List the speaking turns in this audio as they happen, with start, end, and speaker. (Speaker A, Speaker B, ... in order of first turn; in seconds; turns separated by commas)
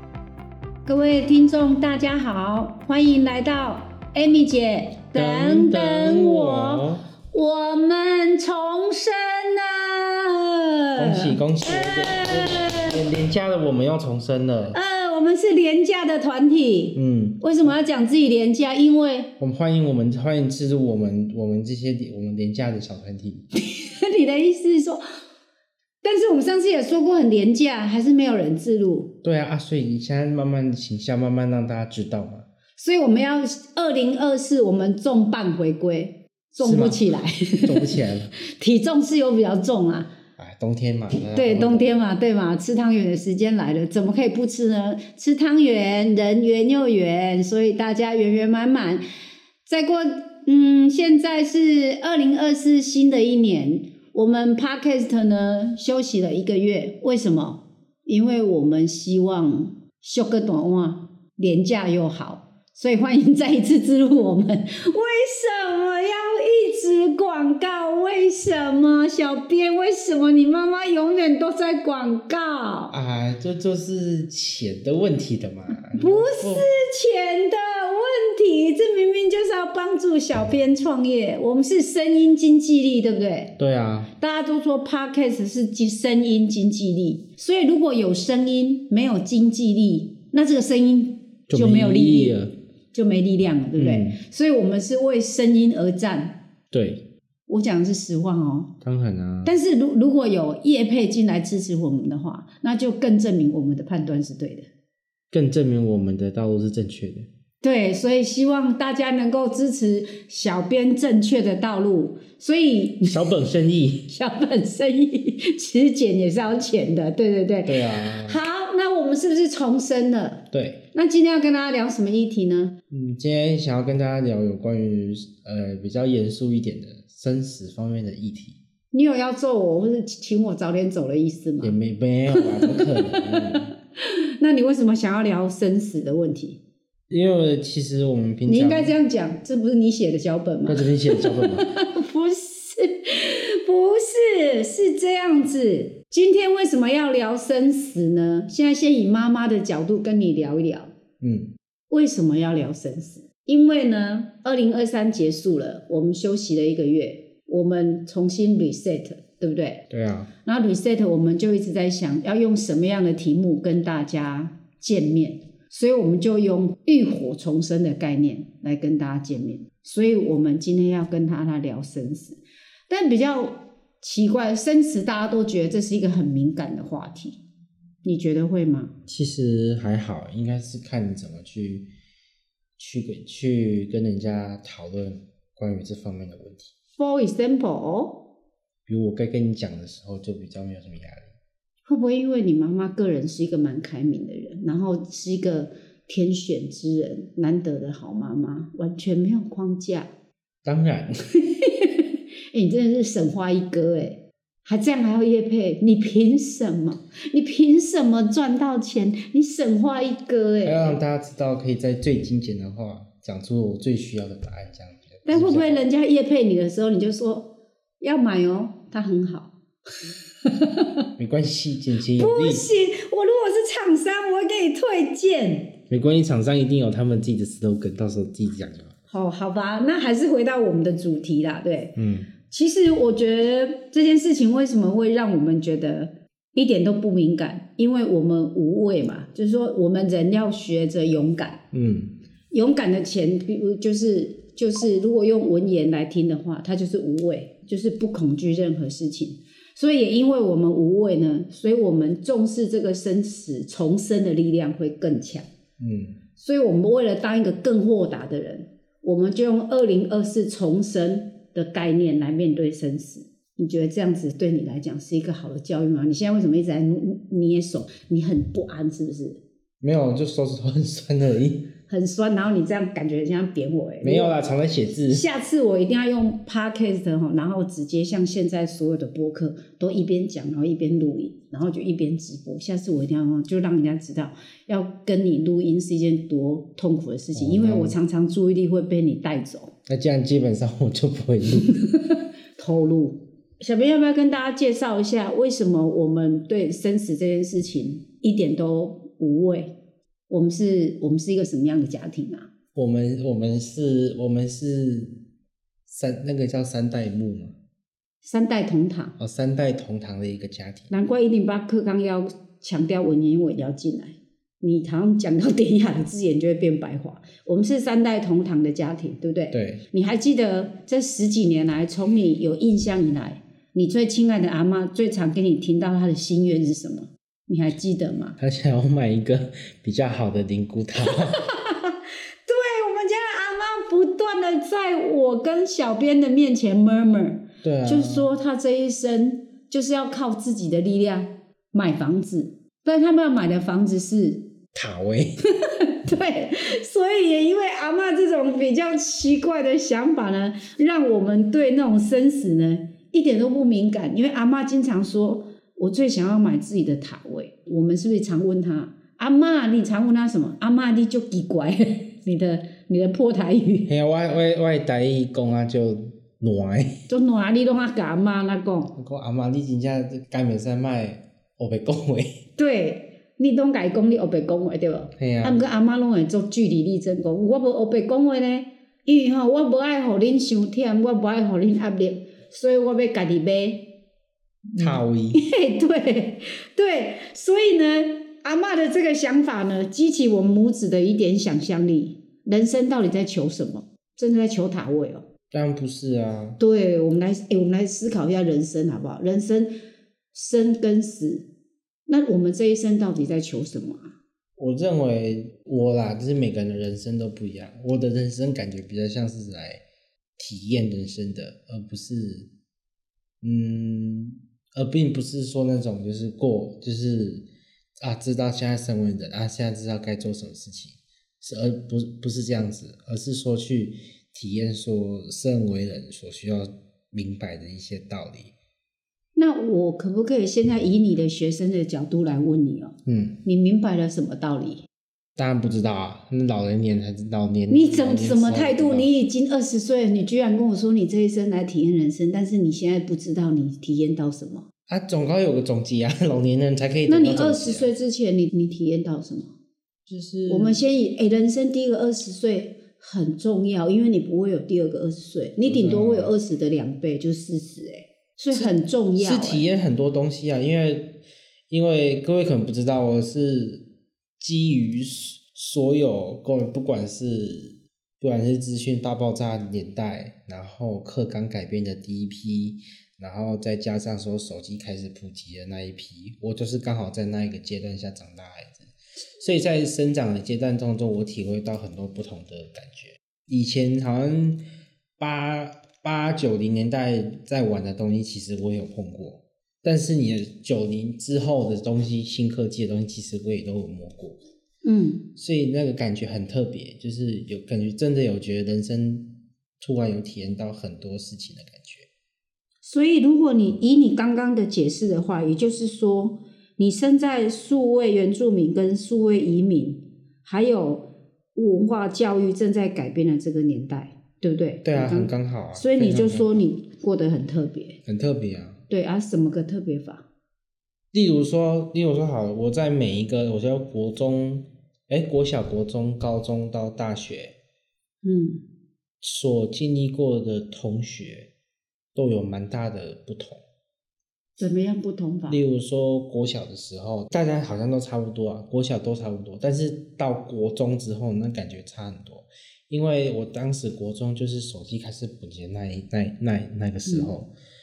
Speaker A: 0.8-12.9, Speaker B: 5.1-7.0, Speaker B: 11.0-14.8, Speaker A: 14.7-19.3, Speaker B: 16.9-17.7, Speaker B: 19.4-23.5, Speaker A: 23.6-25.0, Speaker A: 26.0-29.1, Speaker B: 29.2-32.5, Speaker A: 32.8-40.1, Speaker B: 36.6-37.1, Speaker B: 37.6-38.3, Speaker B: 40.4-42.1, Speaker A: 41.3-49.0, Speaker A: 49.7-73.0, Speaker B: 72.9-76.7, Speaker A: 76.0-83.6, Speaker B: 83.6-84.1, Speaker A: 84.2-96.4, Speaker B: 91.5-92.5, Speaker B: 93.8-94.2, Speaker B: 96.7-97.0, Speaker A: 97.5-98.7, Speaker B: 98.8-99.6, Speaker A: 99.4-104.7, Speaker B: 105.3-107.3, Speaker A: 107.6-113.2, Speaker B: 113.1-114.1, Speaker A: 114.1-122.7, Speaker B: 117.7-118.4, Speaker B: 120.5-120.8, Speaker B: 122.9-128.6, Speaker A: 128.9-131.8, Speaker B: 131.6-133.7, Speaker A: 132.3-136.6, Speaker B: 137.1-138.9, Speaker A: 138.5-150.9, Speaker B: 140.7-141.7, Speaker B: 151.2-151.5, Speaker A: 151.9-159.8, Speaker B: 159.9-160.3, Speaker A: 160.4-177.4, Speaker A: 178.0-178.9, Speaker B: 179.1-181.9, Speaker B: 182.8-186.7, Speaker A: 187.0-188.2, Speaker B: 188.9-191.3, Speaker A: 191.9-200.1, Speaker B: 200.6-201.1, Speaker A: 201.5-211.0, Speaker B: 210.6-215.8, Speaker A: 215.2-219.5, Speaker A: 220.4-221.1, Speaker B: 221.2-222.7, Speaker A: 222.2-225.8, Speaker B: 225.9-228.9, Speaker A: 229.1-232.0, Speaker B: 232.0-232.3, Speaker A: 232.5-241.6, Speaker B: 241.7-242.1, Speaker A: 242.5-255.5, Speaker B: 255.8-256.2, Speaker A: 256.4-269.4, Speaker B: 269.8-271.7, Speaker A: 271.9-274.4, Speaker B: 274.0-275.3, Speaker A: 275.1-289.7, Speaker B: 287.4-288.0, Speaker B: 289.9-291.7, Speaker A: 291.9-299.8, Speaker A: 300.3-302.5, Speaker B: 302.8-305.2, Speaker B: 305.9-307.6, Speaker A: 308.2-309.2, Speaker B: 309.2-310.9, Speaker A: 310.9-328.4, Speaker B: 319.5-319.8, Speaker B: 328.4-331.4, Speaker A: 331.1-344.5, Speaker B: 337.6-338.3, Speaker B: 344.7-345.4, Speaker A: 345.6-363.9, Speaker B: 363.9-367.0, Speaker A: 367.1-368.9, Speaker B: 369.0-372.4, Speaker A: 372.6-383.9, Speaker B: 375.2-375.6, Speaker B: 384.8-385.4, Speaker A: 384.8-395.2, Speaker B: 395.5-396.6, Speaker A: 396.6-399.7, Speaker A: 400.3-401.5, Speaker A: 402.1-404.1, Speaker B: 404.6-409.8, Speaker B: 410.4-412.5, Speaker B: 413.4-417.5, Speaker B: 418.0-428.5, Speaker A: 429.4-434.9, Speaker B: 433.1-433.4, Speaker B: 435.4-439.1, Speaker A: 437.7-444.7, Speaker B: 444.9-447.9, Speaker A: 447.1-449.5, Speaker B: 450.1-450.8, Speaker A: 450.5-459.7, Speaker B: 455.7-456.3, Speaker B: 458.6-461.2, Speaker B: 461.7-463.8, Speaker B: 464.4-484.6, Speaker B: 485.2-494.4, Speaker A: 494.8-495.3, Speaker B: 495.4-502.1, Speaker A: 502.8-518.0, Speaker B: 514.8-516.5, Speaker B: 518.0-518.8, Speaker A: 518.9-520.3, Speaker B: 521.1-527.6, Speaker A: 528.2-528.6, Speaker B: 529.2-531.5, Speaker B: 532.1-533.6, Speaker A: 534.6-535.6, Speaker B: 535.5-547.5, Speaker A: 547.1-547.3